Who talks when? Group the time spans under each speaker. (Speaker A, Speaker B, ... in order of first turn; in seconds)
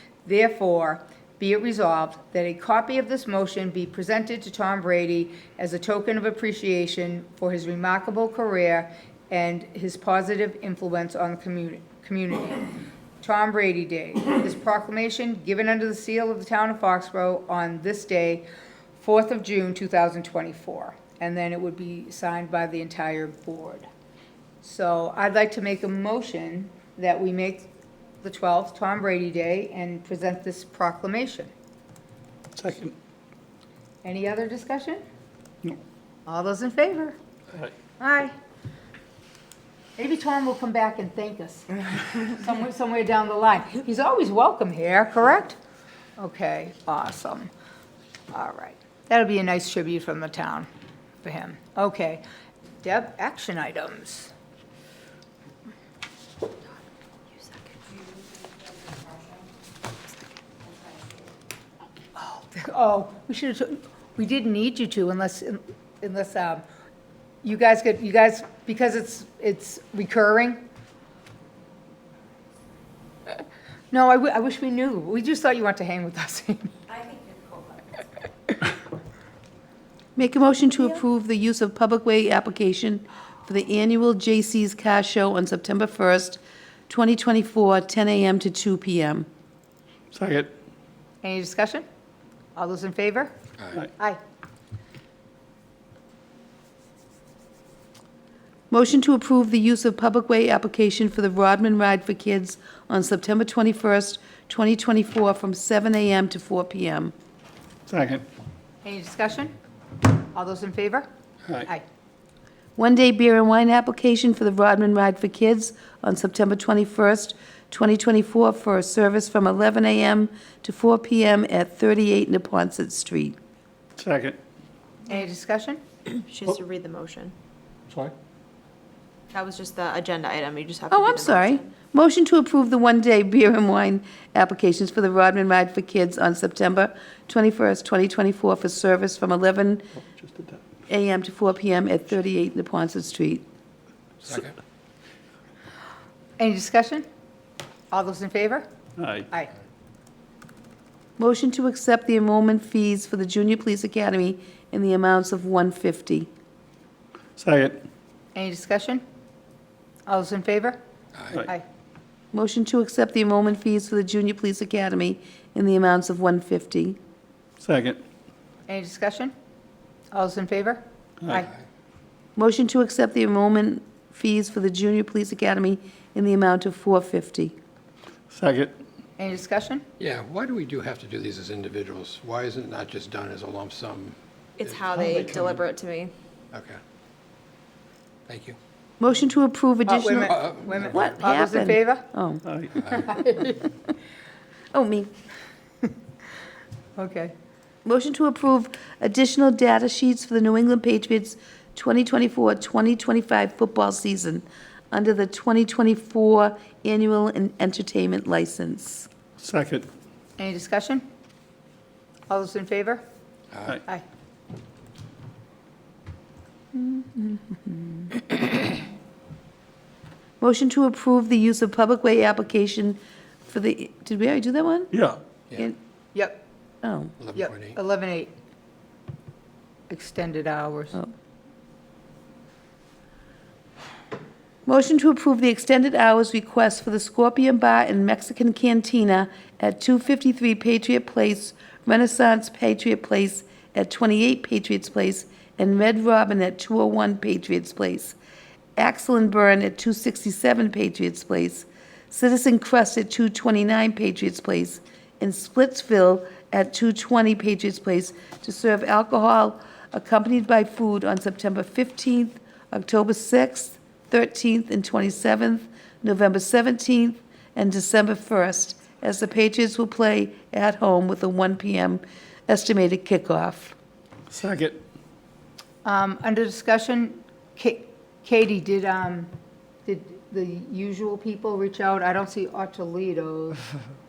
Speaker A: 0.2-12.7, 13.2-18.4, 19.0-23.9, 24.6-27.7, 28.2-31.5, 34.0-35.0, 36.2-37.1, 38.0-38.3, 40.0-45.6, 46.2-47.5, 48.3-50.7, 51.2-52.2, 52.8-54.3, 62.2-66.6, 67.4-70.6, 73.9-76.8, 91.2-91.8, 92.5-93.3, 108.8-109.5, 110.3-111.1, 125.1-125.8, 146.4-147.1, 147.9-148.7, 158.3-159.0, 160.1-160.8, 168.7-169.3, 170.1-171.5, 179.2-179.8, 189.9-192.1, 193.1-193.5, 197.0-197.3, 210.4-211.0, 212.3-213.0, 226.1-226.4, 227.3-228.3, 229.9-231.0, 275.8-279.3, 279.9-283.6
Speaker B: 32.5-32.9, 90.1-90.5, 107.9-108.2, 124.0-124.4, 140.1-140.6, 149.0-149.3, 157.4-157.8, 167.6-168.0, 178.3-178.7, 192.4-192.9, 209.4-209.8, 224.9-225.2, 274.3-274.8
Speaker C: 76.9-77.8, 126.1-127.3, 129.3-131.7, 184.6-186.1
Speaker D: 80.2-89.3, 98.7-107.1, 112.8-123.3, 130.9-139.9, 140.9-143.4, 151.2-156.3, 162.3-167.0, 172.3-177.6, 189.0-192.4, 194.7-195.1, 197.8-209.1, 220.4-224.9, 226.8-227.1, 234.7-248.2, 248.8-273.8
Speaker E: 144.2-144.6, 161.1-161.4, 180.0-185.6, 186.5-186.8, 188.3-188.6, 190.2-191.1, 192.8-193.1, 213.5-213.8, 227.2-227.8